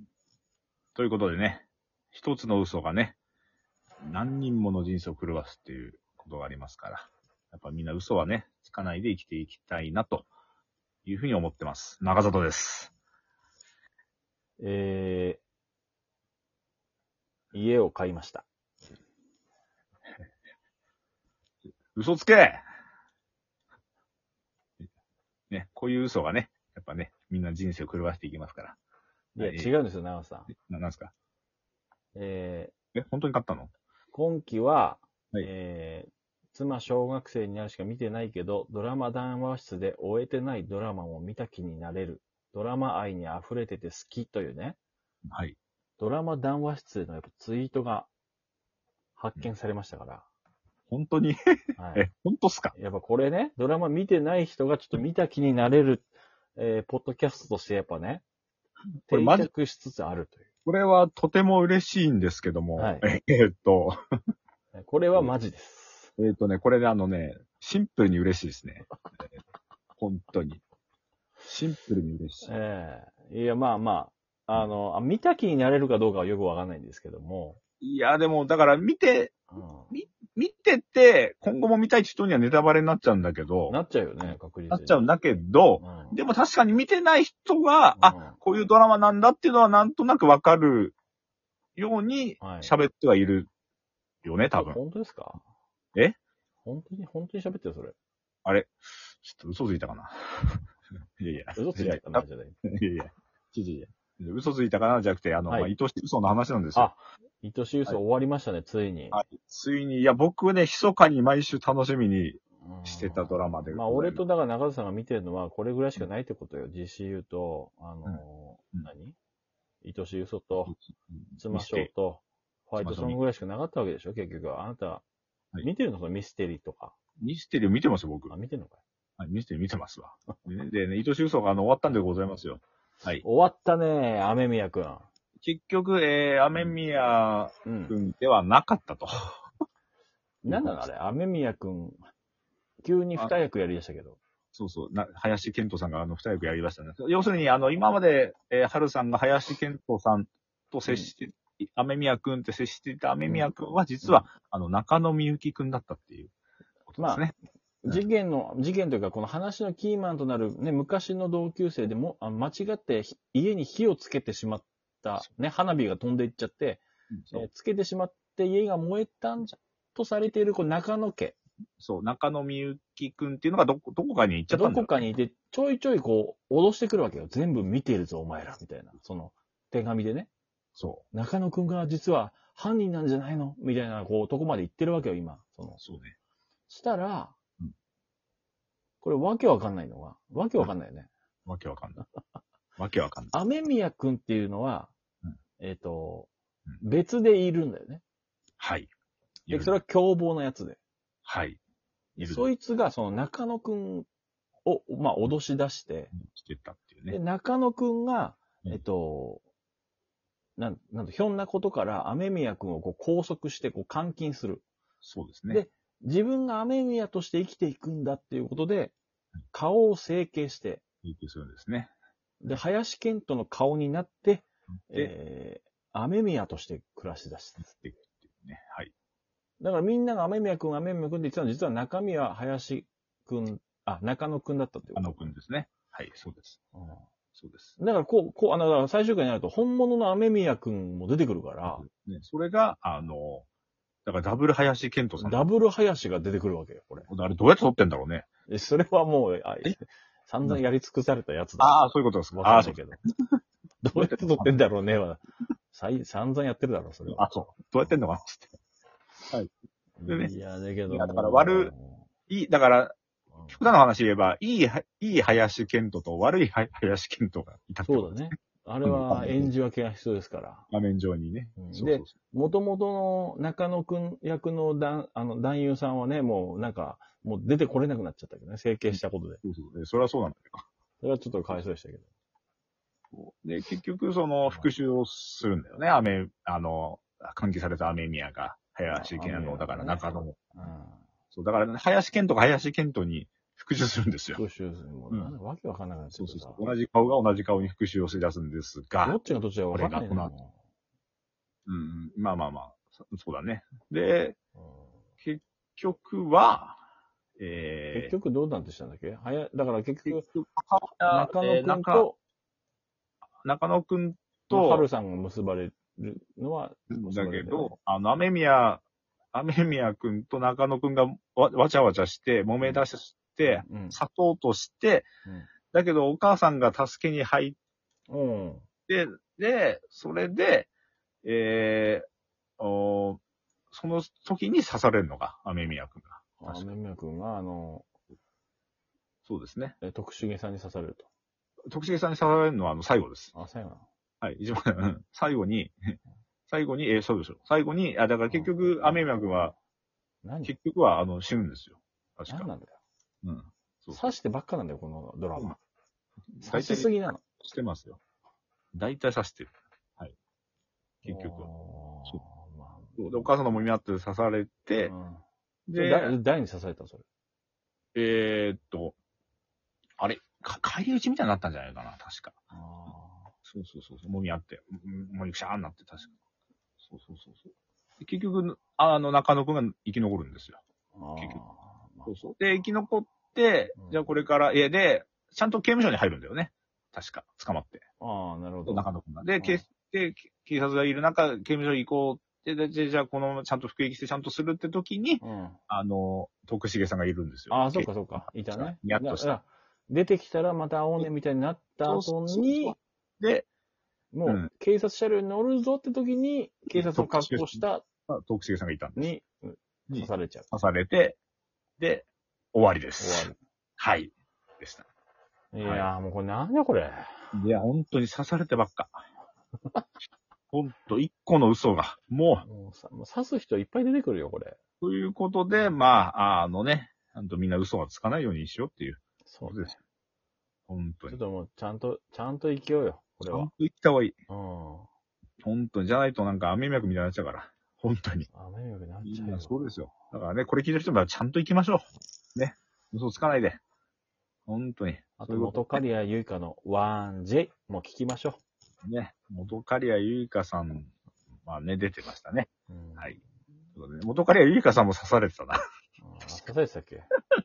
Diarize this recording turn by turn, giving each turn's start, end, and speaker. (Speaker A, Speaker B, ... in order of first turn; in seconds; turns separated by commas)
Speaker A: 0.9-3.2, Speaker A: 4.0-10.3, Speaker A: 11.0-12.9, Speaker B: 14.6-15.4, Speaker B: 17.5-18.4, Speaker A: 21.9-22.6, Speaker A: 25.5-28.8, Speaker B: 29.3-30.5, Speaker A: 29.4-29.7, Speaker A: 30.5-31.1, Speaker B: 32.1-32.7, Speaker A: 32.9-33.7, Speaker B: 34.1-44.8, Speaker A: 45.3-45.6, Speaker B: 46.0-48.1, Speaker B: 49.1-50.2, Speaker A: 50.9-51.4, Speaker B: 51.8-52.1, Speaker A: 51.9-52.7, Speaker B: 52.7-58.2, Speaker A: 59.1-59.5, Speaker B: 59.1-60.5, Speaker A: 60.6-64.0, Speaker B: 62.8-63.1, Speaker B: 64.7-66.1, Speaker A: 66.2-68.8, Speaker A: 70.0-70.6, Speaker A: 71.4-72.5, Speaker B: 72.4-77.6, Speaker A: 77.8-79.3, Speaker B: 79.5-79.9, Speaker A: 79.9-90.9, Speaker B: 83.7-85.0, Speaker B: 85.8-86.2, Speaker B: 88.0-88.4, Speaker A: 91.8-93.5, Speaker B: 92.4-92.7, Speaker A: 94.2-94.8, Speaker B: 94.5-95.4, Speaker B: 96.6-98.0, Speaker A: 98.4-100.6, Speaker A: 101.2-106.9, Speaker B: 101.5-102.6, Speaker B: 105.5-105.7, Speaker B: 106.7-109.2, Speaker A: 109.1-114.2, Speaker B: 112.6-119.2, Speaker B: 119.8-120.8, Speaker A: 120.7-121.9, Speaker B: 121.4-125.0, Speaker A: 122.8-123.2, Speaker B: 125.6-126.9, Speaker A: 127.2-128.3, Speaker B: 128.3-128.8, Speaker A: 129.2-133.2, Speaker B: 133.2-135.1, Speaker A: 135.4-139.4, Speaker B: 137.7-137.9, Speaker B: 140.4-142.0, Speaker A: 140.5-140.8, Speaker B: 142.8-144.2, Speaker A: 144.5-156.3, Speaker B: 150.8-151.1, Speaker B: 154.0-154.3, Speaker A: 156.9-157.3, Speaker B: 157.0-157.2, Speaker B: 157.8-171.3, Speaker A: 167.1-167.5, Speaker A: 171.8-175.0, Speaker B: 174.5-180.3, Speaker A: 180.8-181.0, Speaker B: 181.1-185.8, Speaker A: 185.8-186.2, Speaker B: 186.7-187.3, Speaker B: 189.0-191.1, Speaker A: 191.4-192.0, Speaker A: 192.8-193.3, Speaker B: 193.3-194.9, Speaker B: 195.6-198.0, Speaker A: 198.6-198.9, Speaker A: 199.5-199.7, Speaker B: 199.5-200.8, Speaker A: 201.2-201.6, Speaker B: 202.2-204.1, Speaker A: 202.2-202.5, Speaker B: 204.7-206.1, Speaker A: 206.2-207.2, Speaker B: 207.1-209.4, Speaker B: 210.6-214.6, Speaker A: 215.0-215.6, Speaker B: 215.5-218.9, Speaker B: 219.5-220.8, Speaker A: 221.0-221.9, Speaker B: 222.4-228.0, Speaker A: 227.8-228.9, Speaker B: 229.6-235.3, Speaker A: 234.9-236.6, Speaker B: 236.7-237.0, Speaker A: 237.3-237.8, Speaker B: 237.8-241.8, Speaker A: 241.7-243.5, Speaker A: 244.0-245.4, Speaker B: 245.2-247.1, Speaker A: 247.1-248.2, Speaker B: 248.5-251.8, Speaker A: 251.6-252.9, Speaker B: 252.3-253.0, Speaker B: 253.8-257.3, Speaker A: 253.9-254.6, Speaker A: 257.1-258.6, Speaker B: 260.0-262.1, Speaker A: 260.1-260.3, Speaker A: 260.9-261.7, Speaker A: 262.3-262.9, Speaker B: 263.3-263.6, Speaker A: 263.5-268.3, Speaker B: 267.9-270.7, Speaker A: 268.8-269.5, Speaker A: 270.7-272.1, Speaker B: 271.6-279.4, Speaker A: 278.9-280.6, Speaker B: 281.0-282.1, Speaker A: 283.1-290.7, Speaker B: 284.4-284.7, Speaker B: 288.9-291.1, Speaker A: 291.3-294.4, Speaker B: 294.3-296.6, Speaker A: 296.1-299.2, Speaker B: 299.0-300.5, Speaker A: 299.7-300.3, Speaker A: 301.6-304.4, Speaker B: 304.6-305.0, Speaker A: 305.2-306.8, Speaker A: 307.4-308.1, Speaker B: 307.9-310.2, Speaker A: 310.1-312.1, Speaker B: 311.1-312.2, Speaker A: 313.4-314.9, Speaker B: 314.5-317.7, Speaker A: 316.9-325.1, Speaker B: 323.4-324.0, Speaker A: 325.7-327.6, Speaker B: 328.1-328.6, Speaker A: 328.9-330.7, Speaker A: 331.2-332.1, Speaker A: 332.6-336.7, Speaker B: 336.4-337.9, Speaker A: 339.2-339.8, Speaker B: 339.8-341.1, Speaker A: 341.7-343.3, Speaker B: 343.3-343.8, Speaker A: 344.2-345.9, Speaker A: 346.5-349.5, Speaker B: 348.3-349.1, Speaker B: 350.2-350.5, Speaker A: 350.4-352.5, Speaker B: 352.3-352.8, Speaker A: 353.2-354.1, Speaker B: 353.9-355.6, Speaker A: 356.4-358.0, Speaker B: 356.4-357.2, Speaker A: 358.7-360.1, Speaker A: 361.0-361.5, Speaker B: 361.0-363.6, Speaker A: 363.0-364.9, Speaker B: 364.9-365.2, Speaker A: 365.7-366.1, Speaker B: 365.7-367.0, Speaker A: 367.9-368.9, Speaker A: 370.0-372.4, Speaker B: 372.5-373.3, Speaker A: 373.5-376.1, Speaker A: 376.8-377.5, Speaker A: 378.0-380.6, Speaker B: 380.9-382.1, Speaker A: 382.1-387.8, Speaker B: 383.8-384.1, Speaker B: 388.0-388.9, Speaker A: 388.7-399.3, Speaker B: 389.4-389.6, Speaker B: 395.2-395.6, Speaker B: 397.5-402.8, Speaker A: 401.8-403.5, Speaker B: 404.1-407.8, Speaker A: 406.7-409.1, Speaker B: 408.9-410.5, Speaker A: 409.9-411.2, Speaker A: 411.8-414.9, Speaker B: 413.0-413.4, Speaker B: 415.5-417.2, Speaker A: 415.6-415.9, Speaker A: 417.3-419.0, Speaker A: 420.5-422.4, Speaker B: 422.4-424.6, Speaker A: 424.8-429.8, Speaker B: 429.2-429.8, Speaker A: 430.7-431.2, Speaker B: 431.1-433.5, Speaker A: 433.2-434.1, Speaker B: 434.3-434.9, Speaker A: 435.4-438.3, Speaker B: 438.3-439.8, Speaker A: 439.0-443.6, Speaker A: 444.5-445.8, Speaker B: 445.2-448.4, Speaker A: 448.8-450.9, Speaker A: 451.4-453.1, Speaker B: 452.7-453.2, Speaker A: 453.7-455.6, Speaker B: 456.0-457.1